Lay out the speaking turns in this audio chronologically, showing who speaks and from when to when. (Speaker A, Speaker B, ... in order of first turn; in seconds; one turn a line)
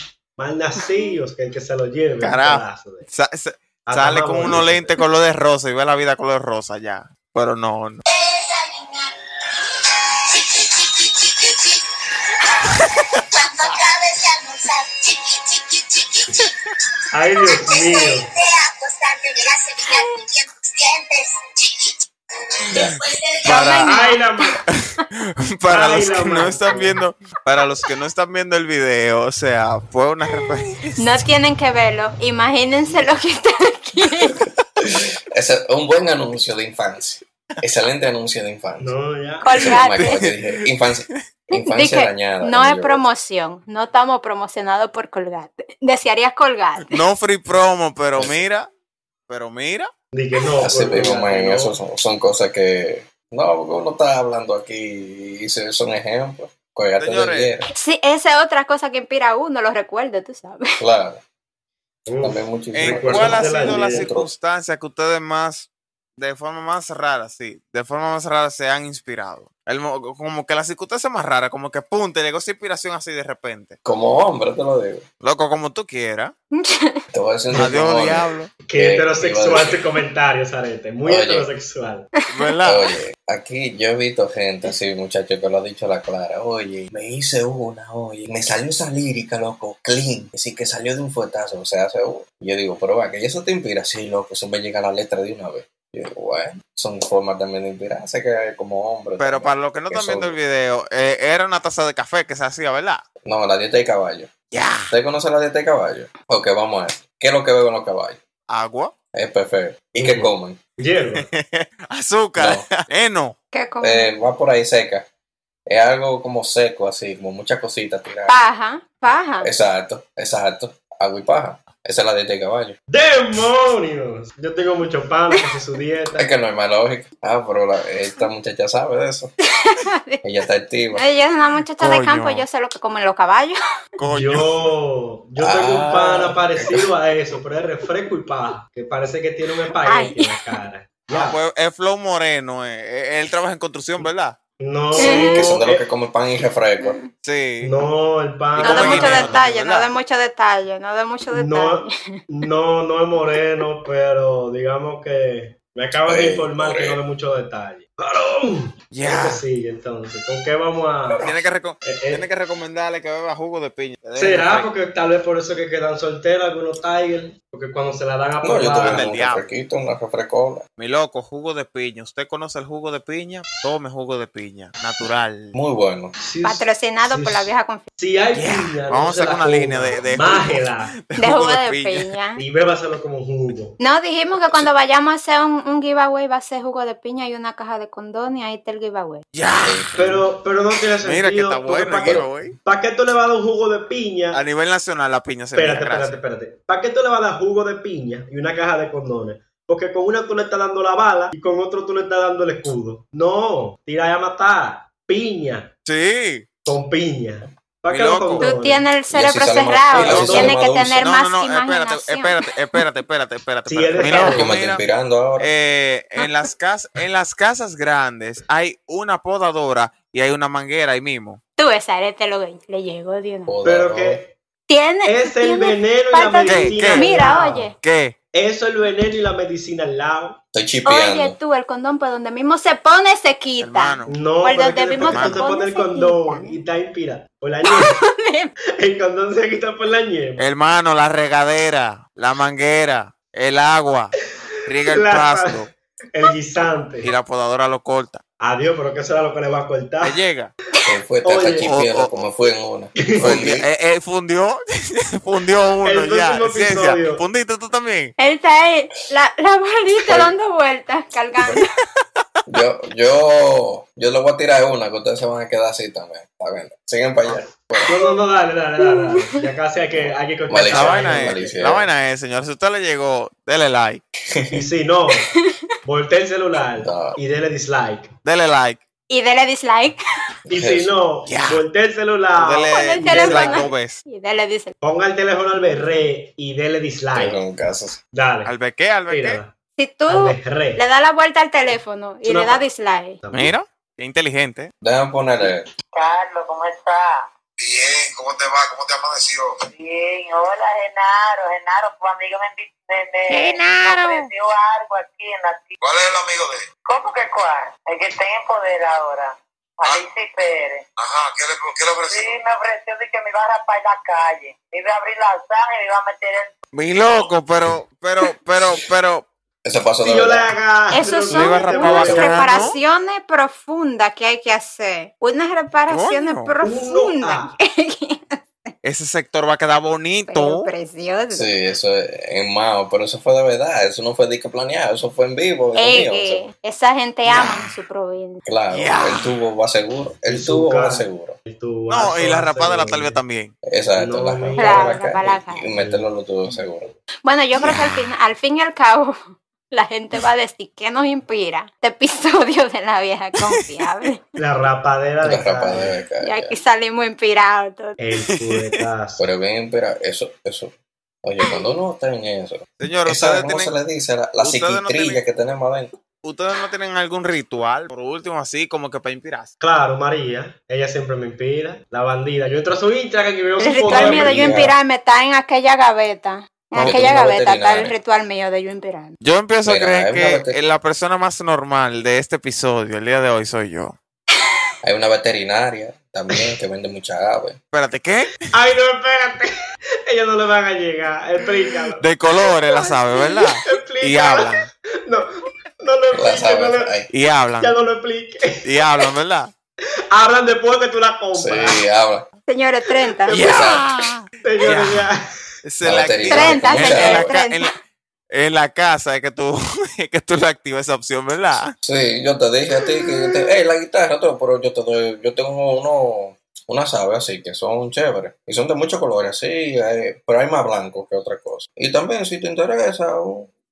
Speaker A: 0.4-3.1
Speaker B: 2.2-8.0
Speaker A: 3.9-5.0
Speaker C: 8.2-8.8
Speaker B: 12.6-13.2
Speaker C: 13.3-16.0
Speaker A: 17.1-18.3
Speaker C: 17.7-21.8
Speaker D: 22.7-23.0
Speaker B: 22.7-24.1
Speaker C: 23.3-24.6
Speaker A: 23.9-24.6
Speaker B: 24.7-31.1
Speaker A: 25.7-27.0
Speaker C: 31.0-34.4
Speaker D: 34.8-39.0
Speaker A: 38.8-39.5
Speaker C: 39.4-40.2
Speaker D: 39.5-43.0
Speaker B: 39.6-41.2
Speaker C: 41.5-47.0
Speaker B: 46.8-48.7
Speaker B: 49.3-49.9
Speaker A: 50.1-51.8
Speaker D: 50.6-57.7
Speaker B: 57.0-57.5
Speaker C: 57.7-60.8
Speaker D: 60.8-61.2
Speaker A: 62.1-64.1
Speaker D: 62.2-64.3
Speaker B: 62.7-73.8
Speaker D: 73.8-75.0
Speaker B: 75.2-76.3
Speaker C: 76.5-77.0
Speaker D: 77.1-79.8
Speaker B: 77.5-78.5
Speaker A: 78.7-82.1
Speaker D: 81.0-81.5
Speaker B: 82.3-82.8
Speaker D: 82.6-100.4
Speaker B: 99.2-103.0
Speaker D: 103.2-104.3
Speaker B: 104.5-104.9
Speaker D: 104.9-108.2
Speaker B: 108.5-108.9
Speaker D: 109.1-110.6
Speaker A: 110.0-111.3
Speaker B: 111.1-113.3
Speaker D: 112.3-112.7
Speaker C: 113.5-114.1
Speaker D: 113.8-115.0
Speaker D: 115.7-118.4
Speaker C: 118.3-119.5
Speaker D: 119.4-122.8
Speaker A: 122.9-126.3
Speaker D: 126.2-129.3
Speaker C: 129.5-130.2
Speaker D: 130.2-131.0
Speaker C: 130.9-133.6
Speaker B: 131.8-132.4
Speaker B: 134.0-134.7
Speaker A: 134.1-141.4
Speaker D: 135.4-136.9
Speaker C: 139.8-140.6
Speaker B: 141.1-144.4
Speaker A: 144.6-145.8
Speaker D: 144.9-147.0
Speaker C: 145.0-145.5
Speaker C: 146.8-147.1
Speaker B: 147.2-147.7
Speaker A: 147.6-149.4
Speaker B: 148.5-149.9
Speaker C: 148.6-152.2
Speaker A: 151.3-162.2
Speaker D: 156.0-157.0
Speaker B: 158.9-159.4
Speaker B: 161.2-164.7
Speaker A: 164.2-169.1
Speaker D: 168.4-170.7
Speaker B: 168.8-169.4
Speaker B: 170.8-175.6
Speaker D: 175.5-176.1
Speaker A: 176.2-180.9
Speaker C: 176.4-177.8
Speaker B: 178.3-182.1
Speaker C: 181.2-182.4
Speaker A: 182.4-183.8
Speaker C: 183.8-189.2
Speaker B: 189.3-189.9
Speaker D: 189.6-190.2
Speaker A: 189.9-194.4
Speaker B: 191.0-192.6
Speaker B: 194.3-196.2
Speaker A: 195.5-205.7
Speaker B: 205.8-206.5
Speaker A: 206.7-208.9
Speaker B: 207.9-208.5
Speaker C: 208.4-212.3
Speaker D: 209.1-211.1
Speaker A: 209.9-210.6
Speaker B: 210.0-210.4
Speaker B: 211.0-214.8
Speaker A: 213.7-214.5
Speaker D: 214.2-215.5
Speaker B: 215.4-221.4
Speaker C: 221.6-223.5
Speaker D: 223.5-224.2
Speaker A: 223.6-224.3
Speaker C: 224.7-227.7
Speaker A: 225.0-227.7
Speaker B: 226.4-227.1
Speaker B: 227.8-228.1
Speaker A: 228.3-230.4
Speaker D: 230.5-231.4
Speaker C: 230.8-236.6
Speaker B: 233.6-234.2
Speaker A: 234.1-238.0
Speaker B: 235.0-235.5
Speaker C: 237.6-238.5
Speaker A: 238.8-240.4
Speaker B: 240.4-244.1
Speaker B: 244.7-245.7
Speaker A: 244.8-247.1
Speaker B: 247.0-248.2
Speaker A: 248.4-250.2
Speaker B: 250.0-250.5
Speaker D: 250.8-253.6
Speaker A: 251.2-251.7
Speaker B: 251.6-252.1
Speaker A: 253.0-253.5
Speaker B: 253.2-258.1
Speaker A: 255.8-257.2
Speaker C: 258.2-261.6
Speaker D: 260.0-260.3
Speaker D: 262.4-268.0
Speaker A: 267.2-271.6
Speaker C: 268.8-269.1
Speaker D: 270.5-271.9
Speaker B: 270.7-274.0
Speaker D: 274.3-274.6
Speaker A: 274.5-278.1
Speaker C: 275.3-275.7
Speaker D: 276.8-277.2
Speaker B: 278.2-278.8
Speaker C: 279.1-280.0
Speaker A: 280.5-283.7
Speaker D: 280.5-280.9
Speaker B: 281.2-281.6
Speaker B: 282.4-284.0
Speaker C: 282.7-284.7
Speaker A: 284.8-287.4
Speaker D: 287.1-288.0
Speaker A: 288.1-288.5
Speaker B: 288.4-289.4
Speaker A: 289.1-289.5
Speaker C: 289.8-293.2
Speaker A: 290.1-290.8
Speaker A: 292.2-292.6
Speaker A: 293.2-293.5
Speaker B: 293.3-294.7
Speaker D: 294.8-295.7
Speaker E: 295.9-297.2
Speaker F: 297.6-299.5
Speaker E: 299.7-305.8
Speaker B: 303.3-304.3
Speaker F: 305.8-306.6
Speaker E: 306.9-310.8
Speaker F: 311.0-312.4
Speaker E: 312.1-316.5
Speaker B: 316.7-319.3
Speaker D: 319.6-320.5
Speaker A: 320.0-322.6
Speaker C: 320.9-328.4
Speaker B: 321.3-322.8
Speaker B: 325.9-326.5
Speaker A: 326.6-327.5
Speaker B: 328.8-330.7
Speaker C: 330.3-331.5
Speaker D: 331.3-336.5
Speaker C: 335.8-338.4
Speaker D: 338.4-341.4
Speaker B: 338.7-339.3
Speaker A: 340.3-343.2
Speaker B: 341.9-343.5
Speaker D: 343.6-346.9
Speaker A: 344.0-345.0
Speaker C: 344.6-345.7
Speaker A: 345.7-346.6
Speaker C: 347.2-349.2
Speaker B: 347.6-348.1
Speaker C: 349.7-354.2
Speaker B: 353.4-353.8
Speaker A: 354.4-356.0
Speaker D: 355.2-356.6
Speaker C: 356.2-358.0
Speaker A: 358.0-359.3
Speaker B: 358.2-358.8
Speaker D: 359.2-365.9
Speaker B: 362.8-363.7
Speaker B: 364.4-365.2
Speaker B: 366.2-369.5
Speaker A: 369.6-374.7
Speaker C: 373.6-379.1
Speaker D: 373.8-374.8
Speaker B: 376.7-377.1
Speaker D: 376.8-377.9
Speaker B: 379.2-383.9
Speaker D: 379.6-380.6
Speaker D: 384.8-387.6
Speaker B: 387.7-388.3
Speaker A: 388.5-389.5
Speaker A: 390.1-392.1
Speaker B: 391.9-394.7
Speaker A: 392.8-396.9
Speaker D: 396.1-397.1
Speaker B: 397.1-397.7
Speaker A: 397.6-398.6
Speaker B: 398.6-399.5
Speaker A: 400.1-401.8
Speaker D: 401.3-402.3
Speaker C: 402.5-403.4
Speaker A: 403.0-403.8
Speaker B: 403.3-405.1
Speaker D: 403.4-403.8
Speaker A: 404.4-405.2
Speaker B: 405.6-407.7
Speaker D: 405.8-407.3
Speaker C: 406.3-407.7
Speaker B: 408.3-411.7
Speaker D: 411.8-423.5